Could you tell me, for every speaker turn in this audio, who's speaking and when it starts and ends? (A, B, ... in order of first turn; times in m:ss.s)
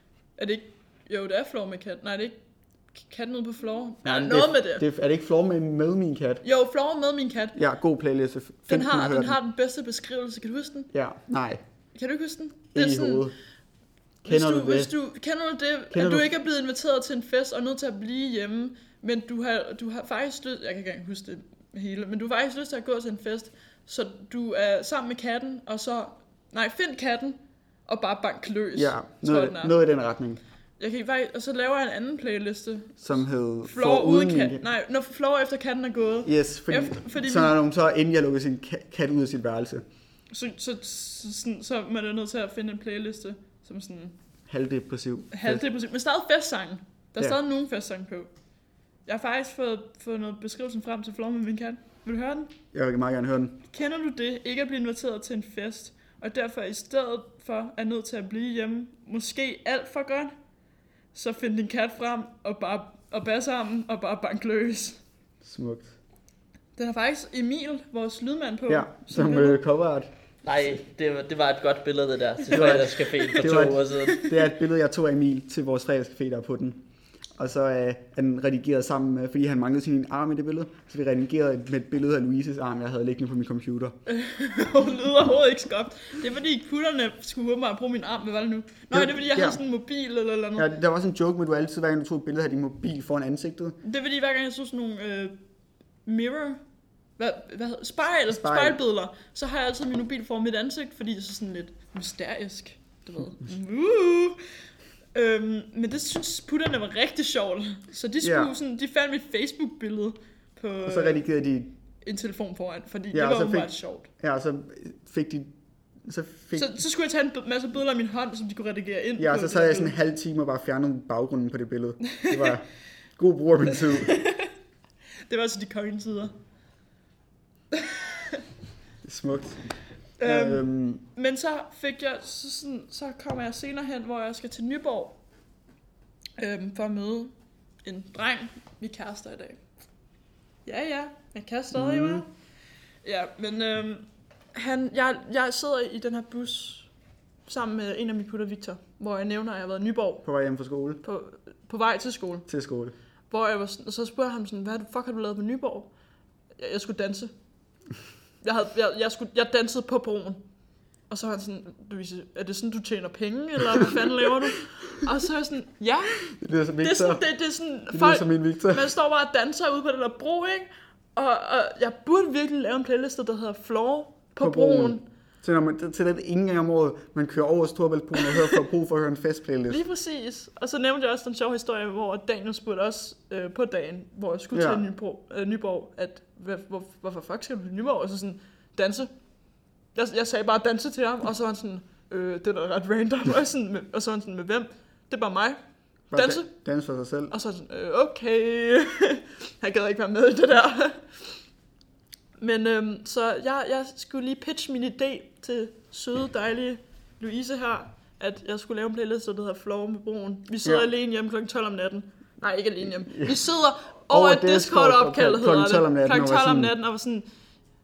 0:00.4-0:02.4 A
0:03.0-0:04.9 A
0:04.0-0:06.4 B
0:06.4-0:07.6 A
0:07.6-0:09.4 B
0:08.7-0:10.9 A
0:10.9-0:11.6 B
0:11.9-0:13.3 A
0:12.7-0:13.4 B
0:14.2-0:14.9 B
0:14.2-0:29.7 A
0:15.9-0:16.3 B
0:28.8-0:30.4 B
0:30.8-0:37.6 A
0:33.0-0:34.6 B
0:36.2-0:39.8 B
0:40.3-0:44.2 A
0:44.5-0:45.6 B
0:45.3-0:48.3 A
0:49.1-0:52.5 A
0:52.7-0:53.6 B
0:53.7-1:00.3 A
1:01.1-1:05.0 A
1:05.4-1:05.9 B
1:06.8-1:09.6 A
1:08.7-1:10.1 B
1:10.4-1:14.2 C
1:12.5-1:16.8 B
1:12.6-1:14.3 A
1:17.4-1:24.0 B
1:24.1-1:30.7 A
1:28.9-1:29.6 B
1:30.6-1:33.8 B
1:33.8-1:35.4 A
1:36.1-1:36.6 A
1:37.2-1:44.4 A
1:38.3-1:38.8 B
1:45.1-1:51.2 A
1:48.2-1:48.5 B
1:50.9-1:51.7 B
1:52.0-1:54.1 A
1:53.1-1:55.5 B
1:56.0-1:56.8 B
1:56.6-1:59.9 A
1:59.2-2:02.7 B
2:02.1-2:02.5 A
2:03.2-2:04.2 B
2:04.0-2:04.5 A
2:05.3-2:06.3 A
2:07.7-2:08.4 A
2:09.0-2:09.7 B
2:10.2-2:15.2 A
2:10.2-2:11.0 B
2:16.4-2:19.6 A
2:20.6-2:22.3 A
2:21.7-2:22.2 B
2:23.0-2:26.9 A
2:27.5-2:30.2 A
2:30.2-2:31.0 B
2:31.0-2:32.5 A
2:32.5-2:32.9 B
2:33.3-2:35.9 A
2:36.6-2:37.3 A
2:38.4-2:40.4 A
2:41.1-2:46.2 A
2:46.3-2:47.2 B
2:46.8-2:55.0 A
2:47.9-2:48.9 B
2:54.4-2:59.8 B
2:59.7-3:09.1 A
3:04.5-3:04.8 B
3:10.0-3:15.6 A
3:16.1-3:17.3 B
3:16.1-3:16.5 A
3:17.3-3:21.4 A
3:22.4-3:37.3 A
3:33.1-3:33.4 B
3:34.1-3:36.7 B